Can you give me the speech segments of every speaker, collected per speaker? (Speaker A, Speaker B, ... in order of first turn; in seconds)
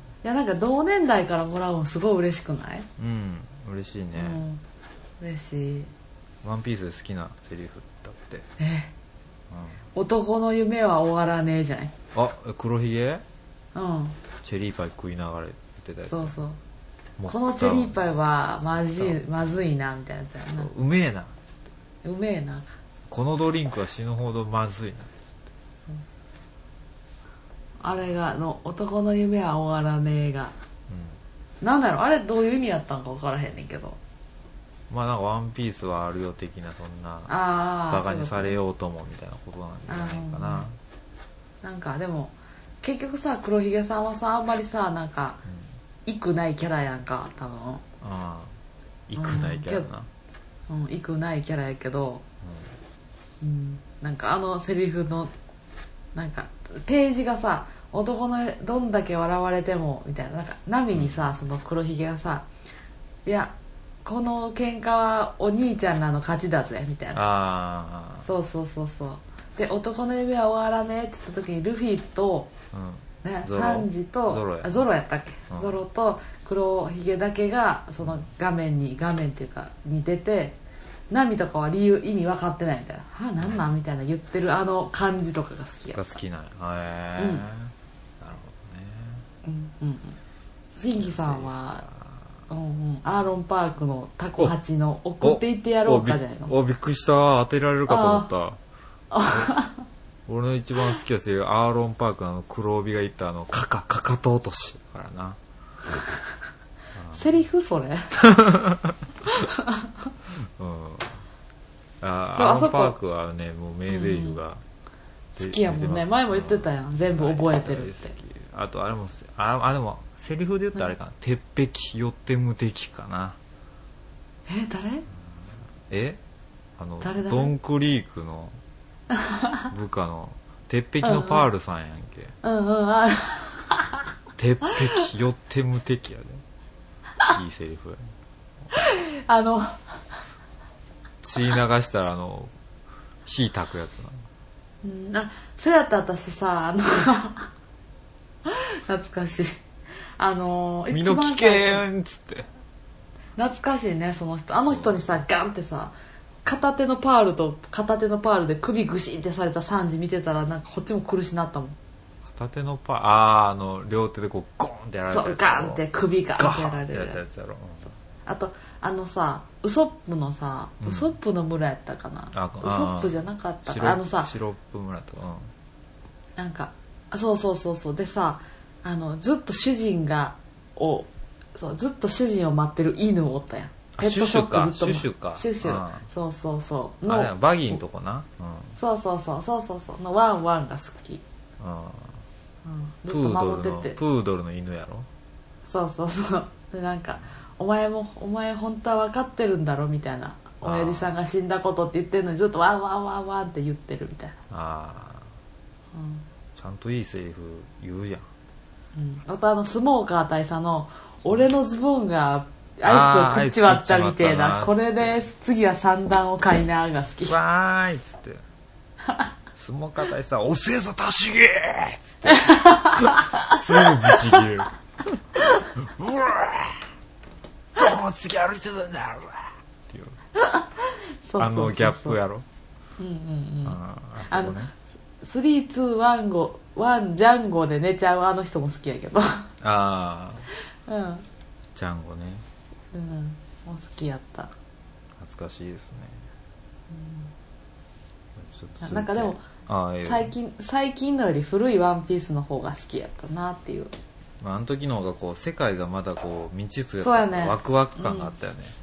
Speaker A: 0.2-2.9, 4.1-4.6, 5.2-5.9, 8.6-8.9, 9.9-11.9, 13.7-14.2, 16.1-16.6, 17.3-20.7, 22.0-22.7, 27.8-30.5, 31.6-34.0, 37.3-38.6, 39.9-40.6, 41.6-45.4, 46.0-47.8, 49.2-49.9, 50.7-52.2, 53.4-55.3, 56.1-62.5, 63.2-67.2, 68.2-72.5, 73.2-80.6, 81.1-86.1, 87.2-87.4, 89.4-90.2, 90.8-91.8, 92.5-96.5, 97.9-98.3, 99.1-99.8, 107.1-108.1, 109.3-110.1, 112.4-112.9, 113.9-114.4, 115.3-118.1, 124.5-125.0, 127.0-127.5, 129.1-129.7, 131.0-131.4, 132.4-134.0, 138.7-140.0, 144.8-147.5, 148.4-149.6, 150.2-151.8, 153.4-155.9, 156.4-161.8, 165.1-167.2, 168.2-174.3, 176.3-187.8, 188.8-191.2, 192.6-194.0, 195.7-204.4, 205.9-206.2, 208.9-217.3, 222.3-224.4, 230.3-232.2, 233.0-234.6, 235.2-239.4, 240.8-241.2, 242.9-244.5, 246.9-247.3, 248.8-249.4, 250.0-253.9, 257.0-258.3
Speaker B: 3.0-4.4, 6.4-8.4, 9.5-9.8, 12.1-13.2, 14.4-16.4, 17.2-18.0, 18.9-19.2, 20.6-21.5, 23.1-25.4, 30.9-31.2, 34.9-37.3, 37.9-40.8, 48.0-48.5, 49.1-50.1, 52.4-52.7, 60.9-61.2, 67.1-68.3, 72.7-74.8, 75.5-75.8, 85.9-89.2, 90.7-92.2, 95.2-98.6, 100.3-105.4, 106.9-107.3, 108.2-109.0, 110.3-111.2, 112.0-114.6, 115.4-123.4, 125.9-126.2, 126.8-128.6, 129.7-132.3, 134.3-136.4, 137.2-138.1, 141.2-142.5, 143.2-144.2, 150.9-152.5, 162.2-165.8, 166.4-167.9, 170.8-171.2, 172.3-175.5, 183.9-186.1, 187.0-188.8, 191.6-192.2, 193.1-195.1, 200.6-201.1, 204.5-205.3, 206.6-208.3, 212.8-215.2, 217.3-218.4, 219.6-224.7, 225.7-226.8, 227.8-230.2, 231.4-232.4, 233.6-234.7, 239.6-240.4, 241.7-242.4, 245.2-246.2, 248.4-250.3, 254.4-258.7